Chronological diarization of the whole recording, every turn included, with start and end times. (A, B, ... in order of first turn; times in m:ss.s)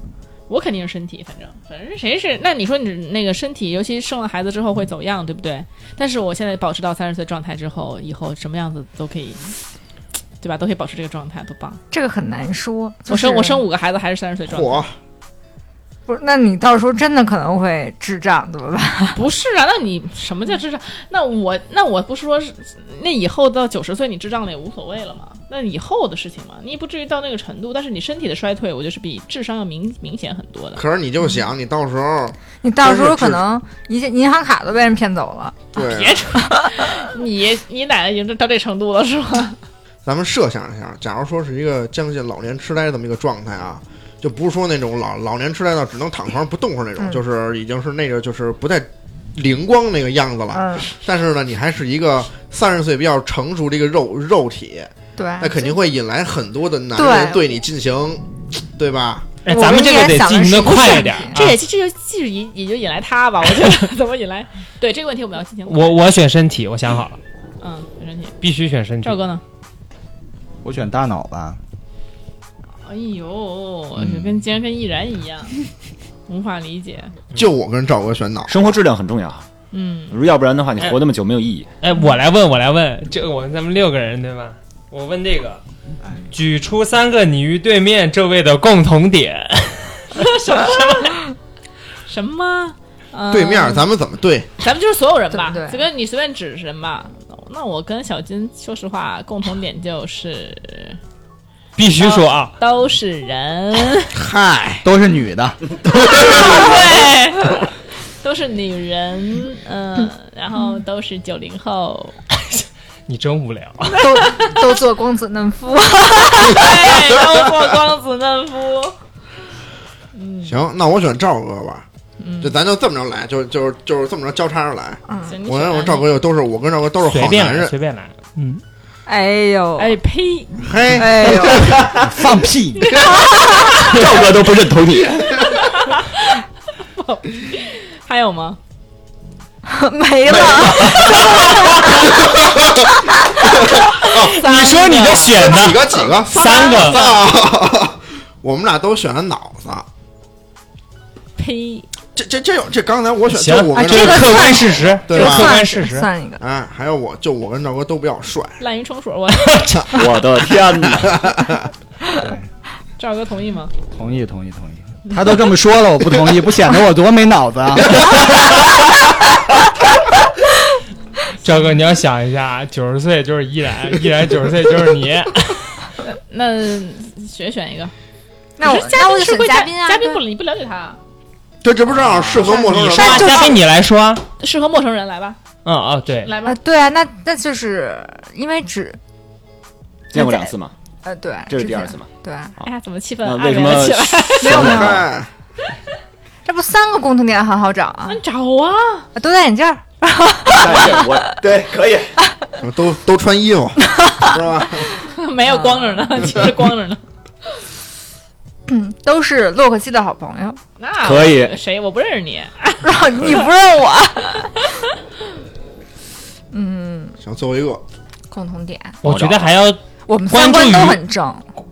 0:00.5-0:09.6 A
0:10.4-0:11.8 A
0:11.9-0:13.6 B
0:13.1-0:14.9 A
0:14.5-0:15.0 C
0:16.1-0:19.2 B
0:19.1-0:30.8 A
0:30.8-0:33.4 C
0:32.6-0:35.7 B
0:35.7-0:36.3 C
0:35.8-0:39.6 A
0:36.4-0:37.1 B
0:40.0-0:59.4 C
0:50.5-0:50.9 B
0:55.2-0:55.8 B
0:57.0-0:57.6 B
0:59.4-1:01.6 D
0:59.5-1:01.4 B
1:01.3-1:06.0 A
1:05.7-1:07.2 D
1:07.6-1:08.4 A
1:08.4-1:09.2 D
1:09.0-1:09.4 A
1:10.6-1:11.6 E
1:12.9-1:15.6 A
1:16.3-1:17.1 A
1:17.4-1:18.7 C
1:18.5-1:19.5 F
1:19.7-1:20.2 A
1:20.1-1:21.7 F
1:21.8-1:25.6 D
1:26.3-1:31.0 D
1:30.1-1:31.2 A
1:32.1-1:33.9 A
1:33.3-1:34.5 C
1:34.6-1:41.0 A
1:35.3-1:35.8 B
1:41.8-1:42.5 D
1:42.0-1:44.1 A
1:44.1-1:44.9 C
1:44.8-1:45.6 E
1:45.9-1:46.7 C
1:46.0-1:47.6 A
1:48.2-1:52.2 A
1:52.5-1:54.0 D
1:53.9-1:54.8 A
1:54.0-1:56.8 B
1:56.5-1:59.0 A
2:00.2-2:00.6 A
2:00.4-2:01.9 C
2:02.2-2:02.6 A
2:02.4-2:07.7 C
2:05.1-2:05.4 B
2:05.2-2:06.1 A
2:07.0-2:08.6 D
2:09.1-2:10.0 B
2:09.8-2:10.7 A
2:10.6-2:11.9 C
2:10.9-2:11.9 B
2:11.7-2:12.0 F
2:12.0-2:13.0 E
2:12.8-2:13.3 A
2:12.9-2:13.2 C
2:13.0-2:14.0 B
2:13.9-2:15.6 F
2:15.4-2:18.6 A
2:19.6-2:23.6 B
2:20.3-2:21.5 F
2:22.1-2:22.9 C
2:23.7-2:24.5 C
2:24.0-2:27.3 A
2:24.1-2:27.0 D
2:25.3-2:29.9 C
2:31.4-2:31.9 A
2:32.2-2:35.7 C
2:33.3-2:36.1 D
2:33.7-2:36.4 B
2:36.4-2:38.6 C
2:38.6-2:39.7 A
2:39.4-2:40.0 D
2:39.8-2:41.7 C
2:39.9-2:41.2 F
2:42.2-2:42.5 E
2:43.0-2:43.7 A
2:43.9-2:48.4 E
2:51.4-2:55.9 D
2:56.0-2:57.9 A
2:58.6-3:00.2 B
2:58.6-3:01.0 A
3:01.6-3:03.5 C
3:02.1-3:04.2 D
3:02.4-3:03.5 B
3:03.0-3:03.4 A
3:04.4-3:05.4 A
3:05.6-3:06.4 D
3:06.2-3:06.6 A
3:06.4-3:09.0 B
3:10.1-3:10.7 F
3:10.1-3:10.5 B
3:11.0-3:12.5 B
3:11.5-3:12.1 F
3:12.6-3:14.7 A
3:13.2-3:15.1 F
3:14.4-3:15.1 B
3:14.5-3:15.3 C
3:16.4-3:18.2 B
3:18.1-3:19.1 A
3:19.2-3:21.3 B
3:20.5-3:22.2 F
3:22.6-3:25.0 C
3:25.0-3:27.0 A
3:25.5-3:26.2 B
3:28.7-3:30.6 B
3:30.8-3:33.5 A
3:31.0-3:31.6 F
3:32.8-3:34.6 B
3:36.5-3:37.2 B
3:37.2-3:37.8 C
3:38.3-3:39.0 B
3:39.0-3:41.0 D
3:39.0-3:39.5 F
3:40.1-3:41.5 B